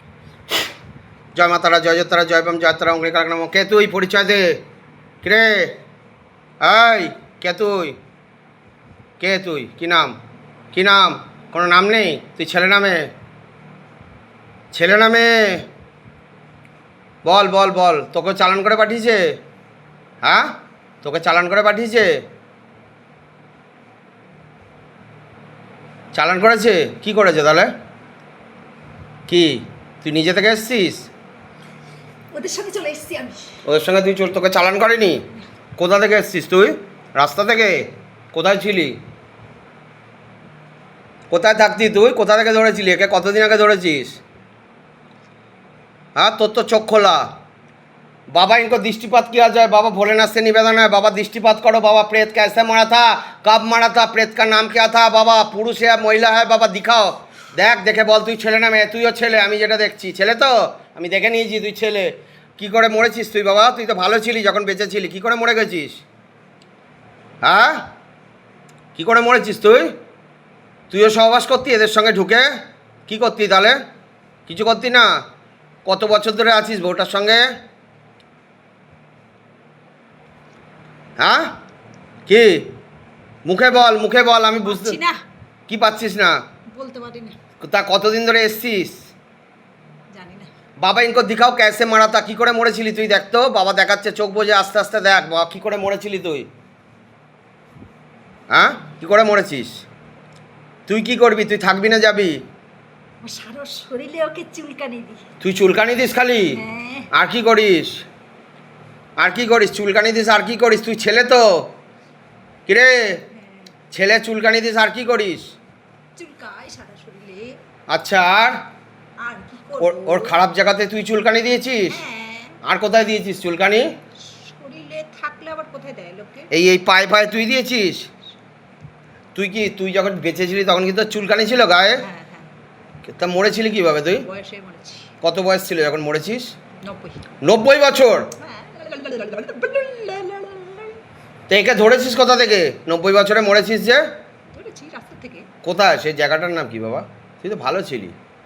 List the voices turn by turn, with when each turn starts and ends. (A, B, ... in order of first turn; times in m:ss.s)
0:01.3-0:04.6 A
0:05.2-0:05.8 A
0:06.6-0:08.0 A
0:09.2-0:10.2 A
0:10.7-0:13.1 A
0:14.7-0:15.7 A
0:17.2-0:19.4 A
0:20.2-0:22.1 A
0:26.1-0:27.7 A
0:29.3-0:31.1 A
0:32.3-0:33.6 B
0:33.6-0:35.2 A
0:35.8-0:39.0 A
0:41.3-0:44.2 A
0:46.2-0:47.3 A
0:48.3-1:06.0 A
1:07.4-1:07.8 A
1:09.0-1:09.9 A
1:10.9-1:12.5 A
1:13.1-1:13.8 A
1:14.5-1:15.2 A
1:15.8-1:17.5 A
1:21.2-1:21.5 A
1:22.3-1:22.7 A
1:23.4-1:25.0 A
1:24.6-1:25.2 B
1:25.7-1:26.4 A
1:26.8-1:27.4 B
1:27.6-1:29.0 A
1:30.2-1:30.5 B
1:30.8-1:36.5 A
1:38.5-1:39.8 A
1:40.9-1:42.4 A
1:43.2-1:45.2 B
1:45.4-1:46.6 A
1:46.5-1:47.1 B
1:47.1-1:48.0 A
1:49.2-1:51.7 A
1:52.7-1:53.2 A
1:53.3-1:53.7 B
1:53.9-1:55.5 A
1:56.2-1:57.5 B
1:57.9-1:58.6 A
1:59.2-2:00.4 B
1:59.8-2:02.0 A
2:01.9-2:02.6 B
2:02.6-2:03.9 A
2:04.2-2:06.5 B
2:06.5-2:08.1 A
2:09.3-2:12.0 A
2:12.0-2:12.5 B
2:13.0-2:14.2 A
2:14.2-2:15.1 B
2:15.2-2:16.5 A
2:16.8-2:17.3 B
2:17.4-2:18.3 A
2:18.4-2:21.0 B
2:21.5-2:24.0 A
2:24.5-2:25.5 B
2:25.6-2:28.1 A